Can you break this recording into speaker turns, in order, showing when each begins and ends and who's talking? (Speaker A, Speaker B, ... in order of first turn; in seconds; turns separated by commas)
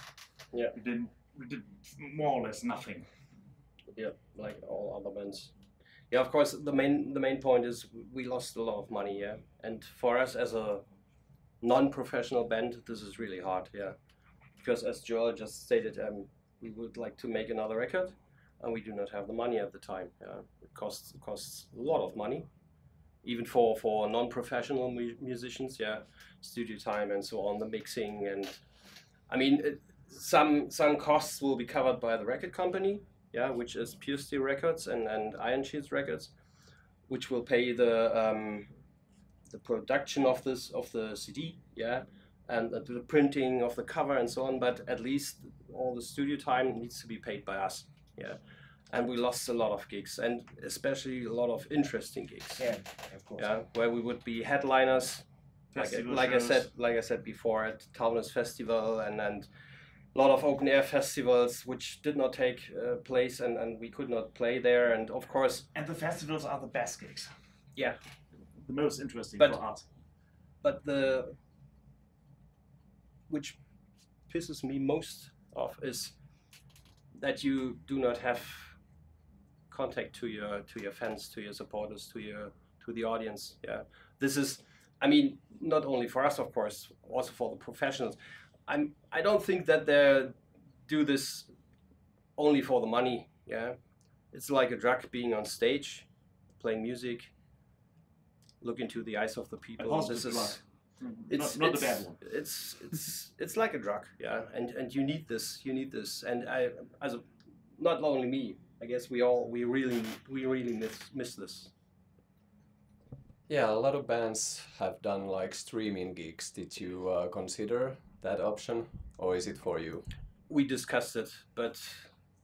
Speaker A: 0.7-3.0, Speaker B: 3.9-5.5, Speaker B: 6.1-10.8, Speaker B: 11.6-13.9, Speaker B: 14.6-22.5, Speaker B: 23.2-28.6, Speaker B: 29.3-36.3, Speaker B: 37.1-38.7, Speaker B: 39.5-48.4, Speaker B: 48.9-52.7, Speaker A: 52.6-53.5, Speaker B: 53.4-59.5, Speaker A: 55.7-56.7, Speaker B: 60.1-65.7, Speaker A: 65.7-67.3, Speaker A: 68.6-69.8, Speaker B: 70.6-71.3, Speaker B: 73.3-73.6, Speaker B: 74.3-76.2, Speaker B: 77.2-78.8, Speaker B: 79.7-91.5, Speaker B: 92.3-93.8, Speaker B: 94.3-97.3, Speaker B: 98.6-100.6, Speaker A: 99.8-102.2, Speaker B: 101.3-111.7, Speaker C: 113.5-120.1, Speaker B: 120.5-122.1